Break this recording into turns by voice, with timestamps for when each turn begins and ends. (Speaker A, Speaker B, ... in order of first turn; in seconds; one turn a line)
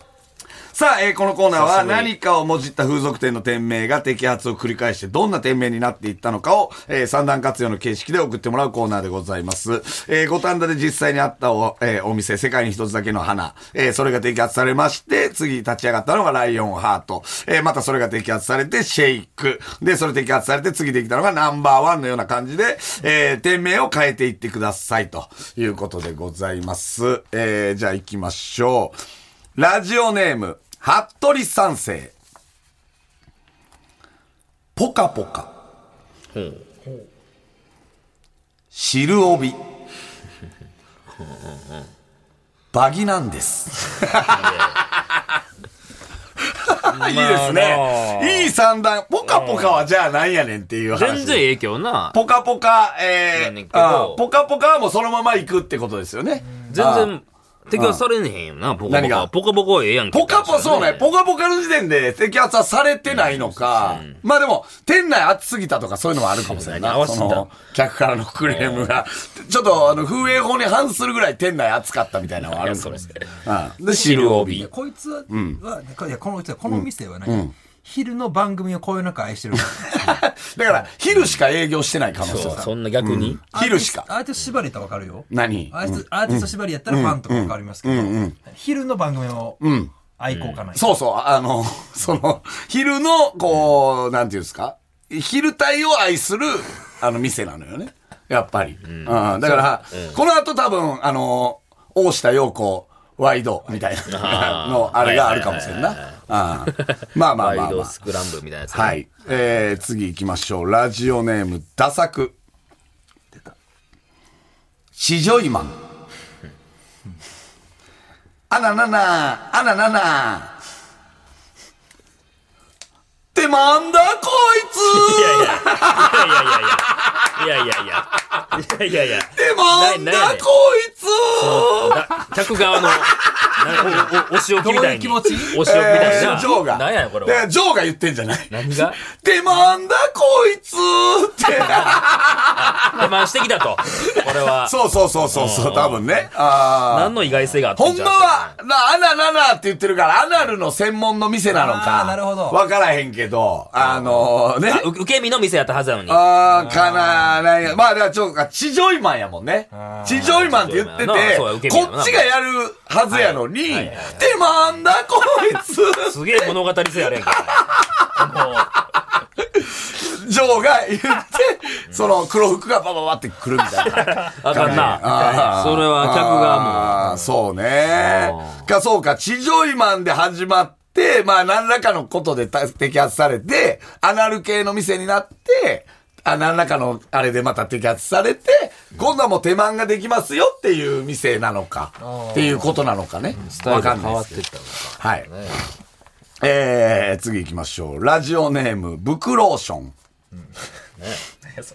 Speaker A: 0.7-29.0
Speaker B: 1.5-2.1
Speaker A: 29.6-32.1
Speaker A: 34.8-35.5
Speaker B: 36.3-36.6
Speaker A: 38.7-39.6
Speaker B: 41.2-41.9
Speaker A: 42.7-45.3
Speaker B: 44.2-44.8
Speaker A: 46.4-51.5
Speaker B: 46.9-48.5
Speaker B: 49.2-49.8
Speaker B: 50.9-52.2
Speaker A: 52.1-57.1
Speaker B: 53.3-54.2
Speaker B: 56.7-61.1
Speaker A: 57.7-58.0
Speaker A: 58.9-59.3
Speaker A: 60.1-74.7
Speaker B: 63.1-64.2
Speaker B: 66.4-67.5
Speaker B: 68.4-68.9
Speaker B: 72.4-73.3
Speaker C: 72.9-73.2
Speaker B: 73.8-74.7
Speaker C: 74.3-80.9
Speaker A: 75.3-75.6
Speaker A: 76.7-77.5
Speaker A: 80.0-84.1
Speaker B: 82.2-83.4
Speaker C: 82.4-82.7
Speaker C: 83.5-91.0
Speaker A: 85.3-88.4
Speaker A: 89.6-89.9
Speaker B: 90.3-90.6
Speaker A: 90.7-108.0
Speaker B: 98.8-100.2
Speaker B: 104.1-109.4
Speaker A: 108.7-112.3
Speaker A: 115.0-115.8
Speaker A: 118.5-120.5
Speaker A: 123.3-127.3
Speaker B: 124.8-130.5
Speaker A: 129.3-133.6
Speaker B: 131.3-137.5
Speaker C: 133.8-136.5
Speaker A: 135.6-143.1
Speaker B: 138.5-139.0
Speaker B: 142.6-144.8
Speaker A: 144.1-147.2
Speaker B: 145.3-148.6
Speaker A: 147.7-154.9
Speaker C: 151.5-152.6
Speaker B: 153.8-157.0
Speaker A: 156.1-166.6
Speaker C: 159.7-160.4
Speaker B: 160.1-162.3
Speaker B: 163.1-164.3
Speaker B: 166.0-168.7
Speaker A: 167.3-168.1
Speaker A: 169.4-194.4
Speaker B: 173.9-177.0
Speaker B: 177.9-178.7
Speaker C: 192.0-192.8
Speaker B: 193.3-195.7
Speaker C: 193.4-193.7
Speaker A: 195.0-195.3
Speaker A: 196.4-199.9
Speaker B: 201.0-201.3